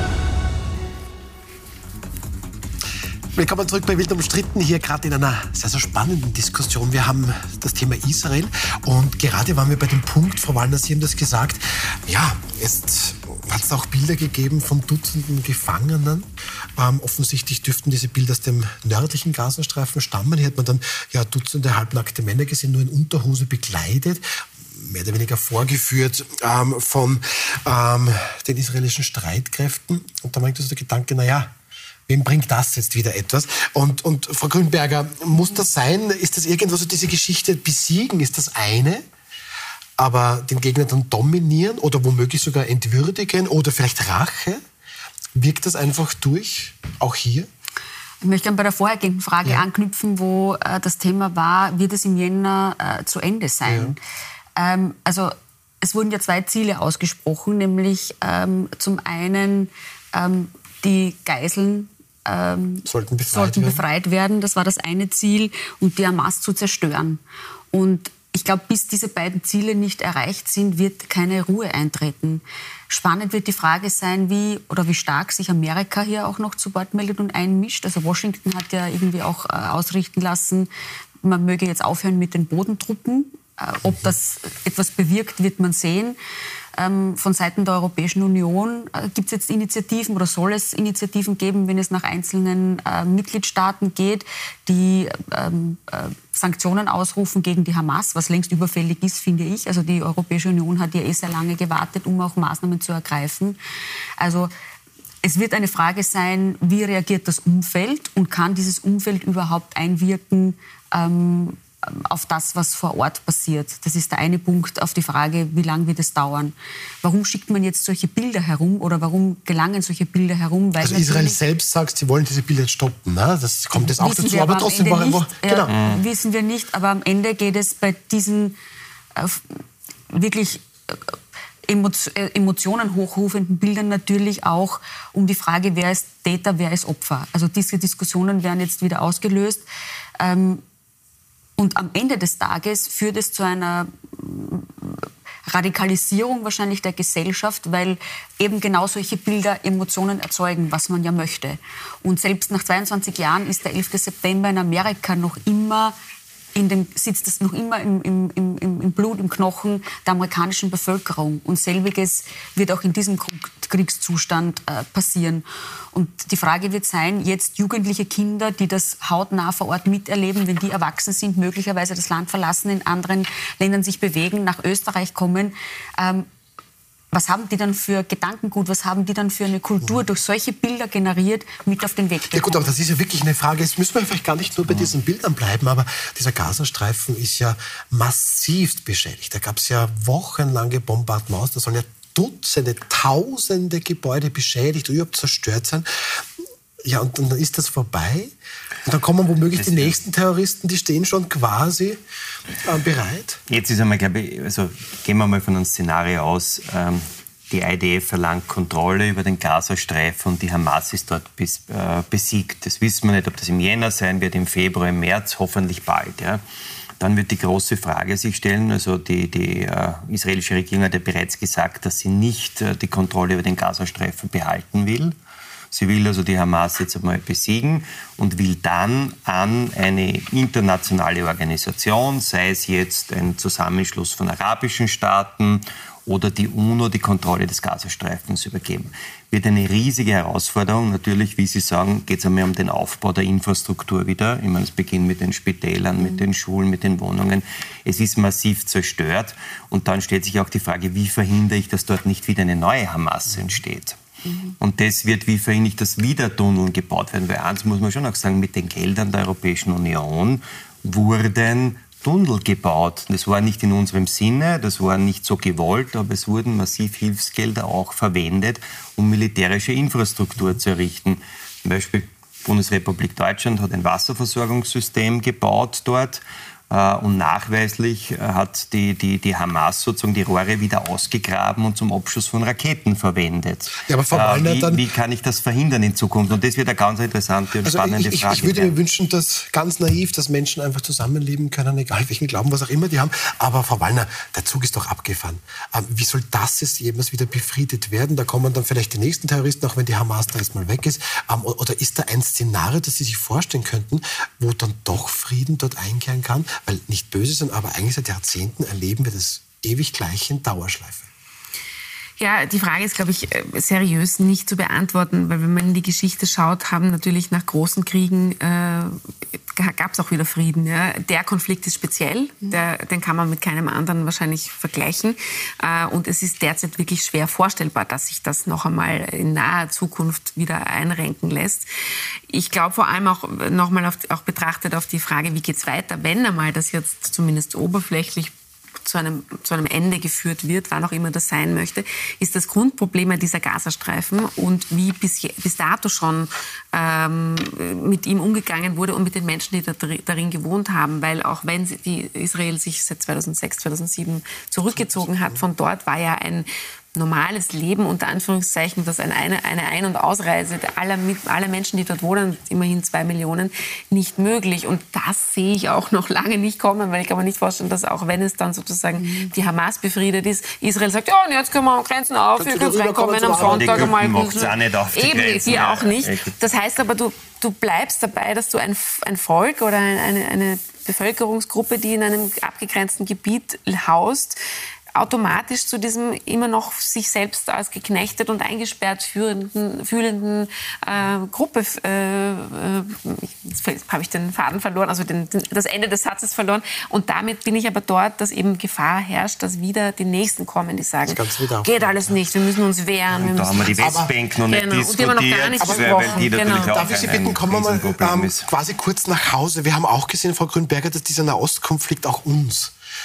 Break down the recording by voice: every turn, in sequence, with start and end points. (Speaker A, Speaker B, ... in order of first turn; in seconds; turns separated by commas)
Speaker A: 3.3-31.5, Speaker A: 32.1-39.0, Speaker A: 40.0-44.6, Speaker A: 45.3-47.5, Speaker B: 48.2-54.0, Speaker A: 53.6-53.9, Speaker B: 54.5-67.2, Speaker A: 62.8-63.8, Speaker B: 67.7-80.7, Speaker B: 81.2-86.2, Speaker B: 86.8-103.6, Speaker B: 104.2-104.5, Speaker B: 105.2-121.4, Speaker A: 120.8-125.7, Speaker B: 123.8-128.6, Speaker C: 125.7-126.0, Speaker B: 129.2-131.2, Speaker B: 131.7-139.6, Speaker B: 140.2-140.6, Speaker B: 141.6-155.9, Speaker B: 156.5-176.3, Speaker B: 177.1-182.6, Speaker A: 182.3-196.2, Speaker A: 196.8-198.3, Speaker A: 198.8-202.0, Speaker C: 199.5-199.9, Speaker A: 202.6-203.4, Speaker C: 203.5-216.4, Speaker C: 217.0-225.1, Speaker C: 225.7-254.0, Speaker B: 254.3-254.5, Speaker C: 254.6-288.7, Speaker A: 283.8-284.8, Speaker A: 287.6-311.1, Speaker D: 312.2-319.0, Speaker D: 319.5-331.7, Speaker D: 332.3-338.3, Speaker D: 338.8-384.4, Speaker A: 354.7-355.4, Speaker A: 372.4-374.5, Speaker C: 373.3-376.3, Speaker D: 384.9-406.9, Speaker A: 401.1-402.2, Speaker C: 403.1-408.5, Speaker A: 403.8-404.1, Speaker A: 405.6-412.7